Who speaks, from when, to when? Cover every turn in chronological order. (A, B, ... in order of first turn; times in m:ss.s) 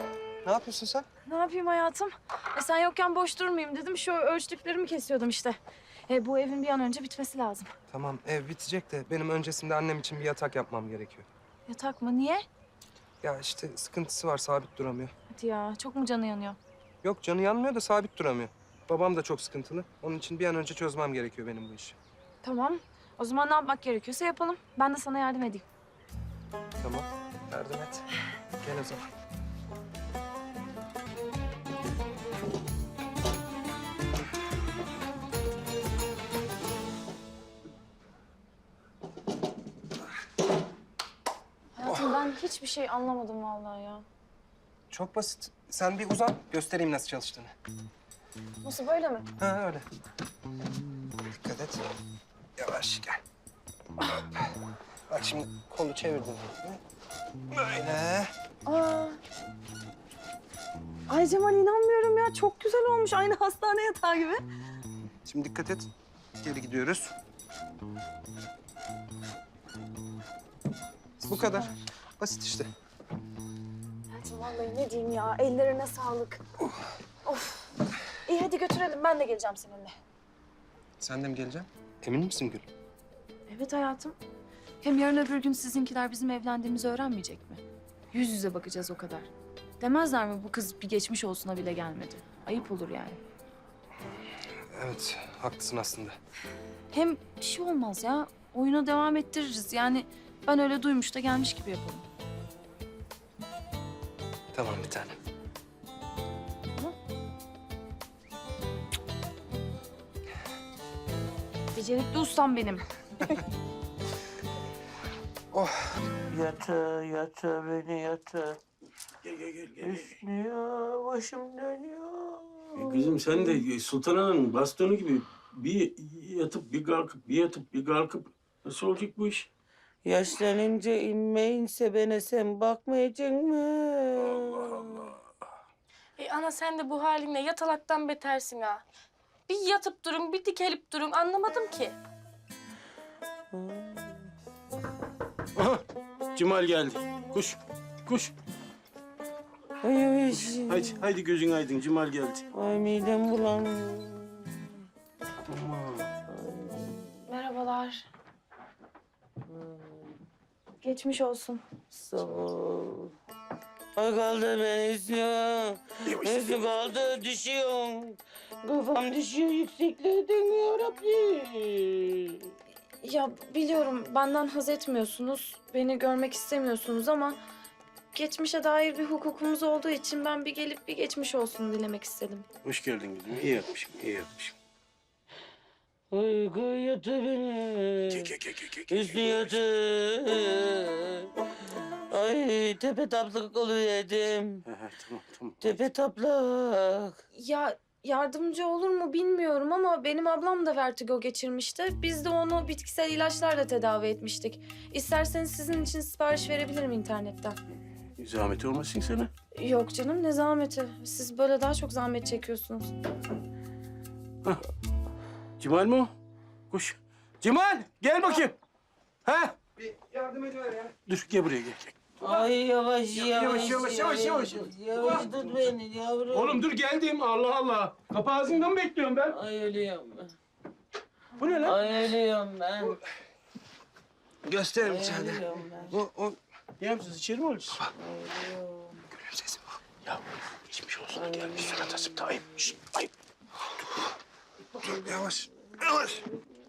0:00.4-0:01.0 A
0:01.2-0:07.7 B
0:07.9-0:11.2 A
0:11.7-0:12.4 B
0:13.2-0:15.1 A
0:15.3-0:16.6 B
0:17.0-0:22.0 A
0:22.4-0:25.6 B
0:26.8-0:28.0 A
0:28.6-0:29.0 A
0:41.8-0:44.0 B
0:41.8-0:42.2 A
0:44.9-0:47.5 A
0:48.6-0:49.3 B
0:49.4-0:49.8 A
0:51.4-0:51.8 A
0:52.6-0:53.2 A
0:55.1-0:56.8 A
0:57.5-0:58.3 A
0:58.6-0:59.2 B
1:01.1-1:04.4 B
1:05.2-1:05.9 A
1:06.4-1:07.1 A
1:11.2-1:11.7 A
1:11.5-1:11.8 B
1:12.2-1:12.7 A
1:14.1-1:16.4 B
1:17.2-1:17.7 B
1:18.2-1:19.9 B
1:21.0-1:22.6 A
1:23.5-1:24.2 B
1:24.8-1:27.6 B
1:28.1-1:29.3 B
1:29.8-1:33.2 B
1:34.7-1:36.2 A
1:36.9-1:42.0 B
1:44.5-1:45.1 A
1:51.7-1:53.4 B
1:56.3-1:58.6 C
1:59.2-2:00.2 D
1:59.8-2:03.6 C
2:02.8-2:09.5 D
2:10.0-2:15.1 C
2:14.4-2:14.8 D
2:16.2-2:18.8 E
2:19.5-2:21.9 E
2:23.5-2:24.3 C
2:25.6-2:25.8 D
2:26.3-2:28.3 D
2:29.8-2:31.0 C
2:30.3-2:32.4 D
2:32.5-2:34.7 C
2:35.5-2:36.1 D
2:36.3-2:37.2 C
2:37.3-2:38.0 B
2:40.8-2:41.6 B
2:41.9-2:43.1 C
2:44.0-2:52.4 C
2:46.0-2:46.5 D
2:53.0-2:57.4 B
2:58.1-3:02.4 B
3:02.6-3:04.5 D
3:06.1-3:08.3 C
3:08.1-3:09.6 D
3:08.9-3:11.3 C
3:12.1-3:14.6 C
3:14.7-3:15.7 D
3:15.6-3:17.2 C
3:17.3-3:27.6 B
3:28.2-3:29.3 D
3:29.5-3:32.9 B
3:35.6-3:36.1 D
3:36.7-3:38.6 D
3:39.2-3:39.6 D
3:39.8-3:40.9 A
3:41.0-3:42.4 D
3:42.2-3:46.7 C
3:43.2-3:45.6 D
3:46.3-3:49.4 D
3:49.3-3:50.3 C
3:51.4-3:52.2 D
3:51.6-3:53.0 C
3:54.4-3:56.4 A
3:54.8-3:56.0 C
3:56.8-3:57.8 D
3:58.0-3:59.0 C
3:59.1-3:59.6 A
4:00.0-4:03.1 D
4:01.1-4:01.8 C
4:04.8-4:06.2 A